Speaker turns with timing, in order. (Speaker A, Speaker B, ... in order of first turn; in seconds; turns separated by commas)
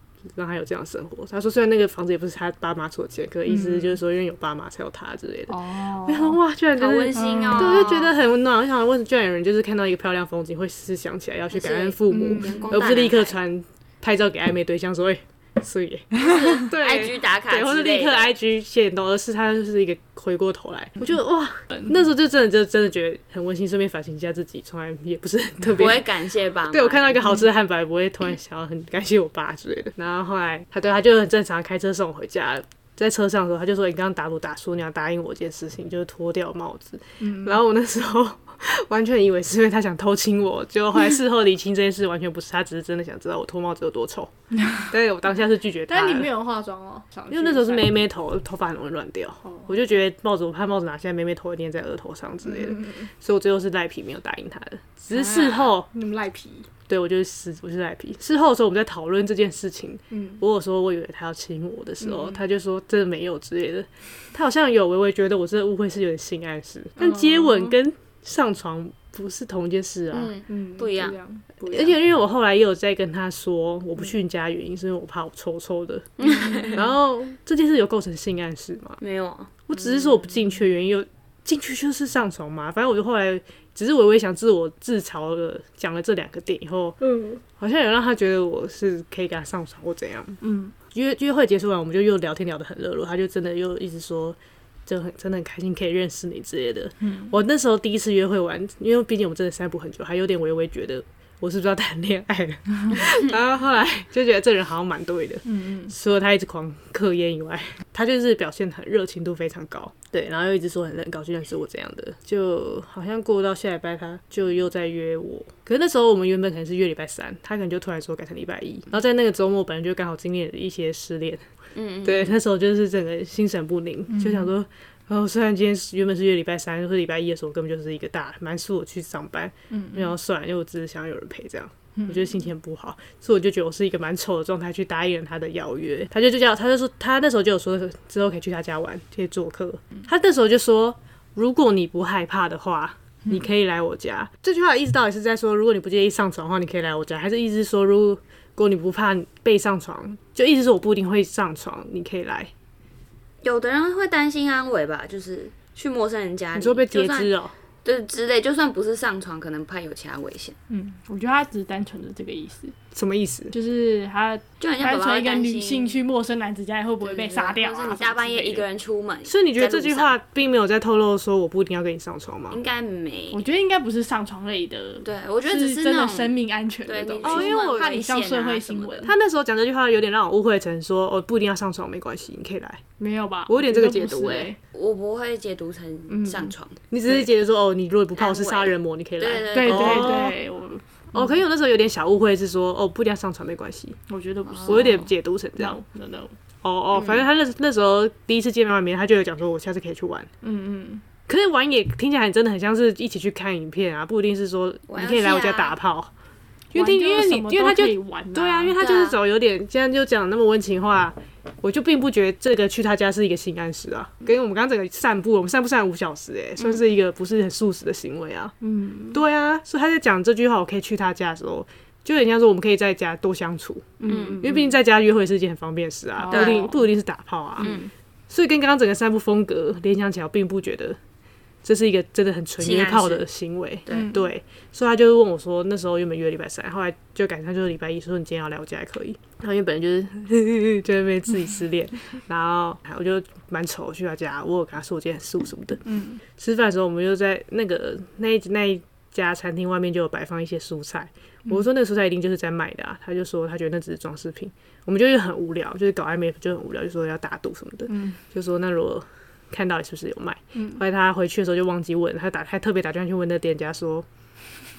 Speaker A: 0.3-26.1, Speaker B: 3.5-4.0, Speaker B: 5.5-6.4, Speaker C: 6.8-8.1, Speaker B: 7.1-8.0, Speaker C: 11.5-13.3, Speaker B: 12.1-12.9, Speaker C: 16.2-18.4, Speaker B: 16.3-16.6, Speaker C: 25.6-27.4, Speaker A: 26.7-46.3, Speaker B: 37.2-37.6, Speaker B: 45.9-48.0, Speaker A: 47.3-55.9, Speaker B: 49.5-49.8, Speaker B: 52.5-53.1, Speaker B: 55.1-56.7, Speaker A: 56.9-70.3, Speaker B: 60.1-60.4, Speaker B: 62.0-62.4, Speaker B: 67.0-67.8, Speaker C: 70.1-71.2, Speaker B: 70.5-72.0, Speaker A: 71.7-76.1, Speaker C: 76.2-76.8, Speaker B: 76.2-76.9, Speaker A: 76.7-79.0, Speaker C: 79.0-79.7, Speaker A: 79.7-87.0, Speaker B: 87.0-87.4, Speaker A: 87.6-121.4, Speaker B: 90.4-90.8, Speaker B: 97.0-97.3, Speaker C: 102.9-103.2, Speaker B: 105.5-105.9, Speaker C: 121.8-122.4, Speaker A: 122.0-152.5, Speaker B: 124.1-124.5, Speaker B: 129.7-130.1, Speaker B: 132.0-132.4, Speaker C: 153.4-157.3, Speaker A: 156.6-157.6, Speaker C: 157.8-160.6, Speaker B: 160.7-162.8, Speaker A: 162.9-163.6, Speaker B: 163.5-168.7, Speaker C: 164.6-166.0, Speaker C: 167.0-170.2, Speaker A: 169.3-172.6, Speaker C: 172.5-173.4, Speaker B: 173.3-179.2, Speaker C: 175.0-179.1, Speaker A: 177.2-177.9, Speaker A: 179.0-182.8, Speaker B: 183.0-184.6, Speaker A: 183.5-184.5, Speaker C: 184.7-186.8, Speaker B: 186.1-186.5, Speaker A: 186.9-190.4, Speaker C: 188.2-190.3, Speaker B: 189.5-191.4, Speaker A: 191.1-194.0, Speaker B: 194.1-196.4, Speaker C: 194.4-195.1, Speaker A: 194.7-195.8, Speaker A: 196.6-200.3, Speaker C: 196.9-197.2, Speaker B: 200.4-201.0, Speaker A: 201.3-206.1, Speaker C: 204.9-205.8, Speaker A: 206.7-218.5, Speaker B: 206.7-208.8, Speaker C: 208.8-209.2, Speaker B: 218.6-219.2, Speaker A: 219.1-227.7, Speaker B: 224.0-224.8, Speaker C: 224.1-224.4, Speaker B: 226.2-226.9, Speaker C: 226.3-226.7, Speaker B: 227.6-227.9, Speaker C: 227.6-227.9, Speaker A: 228.3-231.0, Speaker A: 231.6-245.8, Speaker C: 232.6-233.2, Speaker B: 233.9-234.3, Speaker B: 245.8-246.2, Speaker A: 246.4-264.1, Speaker B: 257.9-258.2, Speaker B: 260.6-260.8